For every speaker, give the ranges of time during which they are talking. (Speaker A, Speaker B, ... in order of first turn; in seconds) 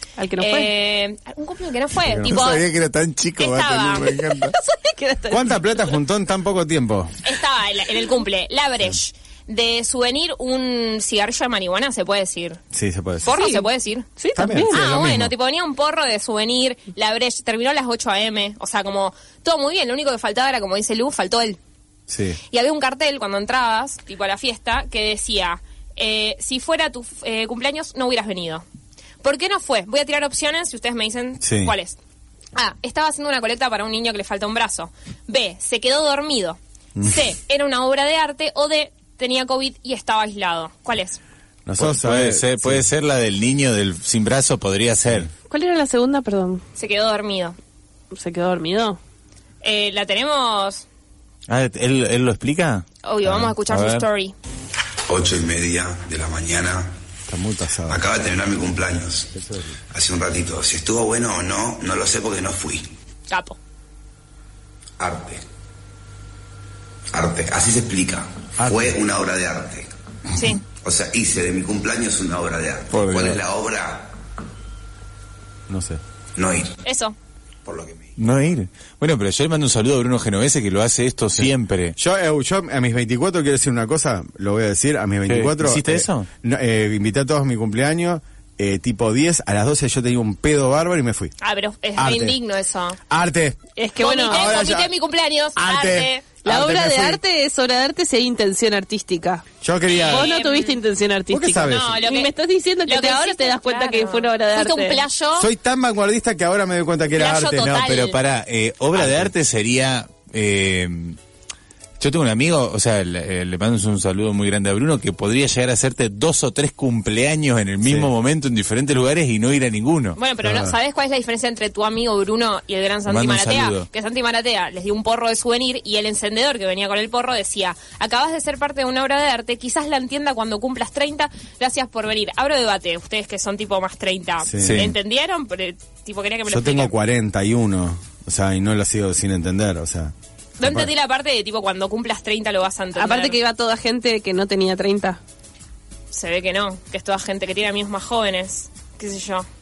Speaker A: 0.2-0.7, 4.5-5.9, 13.3-14.8, 45.5-46.6, 48.1-49.0, 93.8-94.5, 96.4-99.4, 100.1-105.0, 143.0-145.2
Speaker B: 0.4-2.6, 3.4-4.2, 7.2-12.6, 13.2-21.6, 22.5-28.6, 29.2-32.0, 32.5-41.2, 46.8-47.6, 49.6-50.9, 53.0-54.4, 63.3-63.6, 70.4-70.6, 76.8-77.2, 91.4-93.0, 94.0-96.3, 99.9-100.8, 101.7-102.3, 102.9-105.5, 107.2-108.2, 120.2-136.9, 140.6-143.4, 146.1-149.5
Speaker C: 2.0-2.7, 3.9-4.3, 5.3-7.2, 12.7-13.6, 14.3-15.3, 22.1-22.4, 31.4-31.7, 41.6-42.9, 53.2-53.5, 57.3-58.1, 59.4-59.7, 68.6-69.0, 75.7-76.0, 81.4-91.3, 92.0-92.4, 93.1-93.6, 94.2-94.9, 95.5-97.2, 99.6-100.3, 101.3-102.0, 105.4-107.9, 108.9-109.3, 117.8-118.1, 120.4-120.8, 134.4-134.9, 136.5-140.9
Speaker D: 2.3-4.5, 41.8-45.3, 51.5-52.9, 53.7-54.1, 72.9-73.4, 78.2-82.0, 85.3-86.3, 107.7-111.2, 112.0-120.2, 123.1-123.9, 134.6-135.0
Speaker E: 55.1-56.9, 57.9-59.3, 59.9-62.9, 65.0-65.4, 67.1-69.9, 70.7-74.1, 76.4-76.7, 77.7-78.1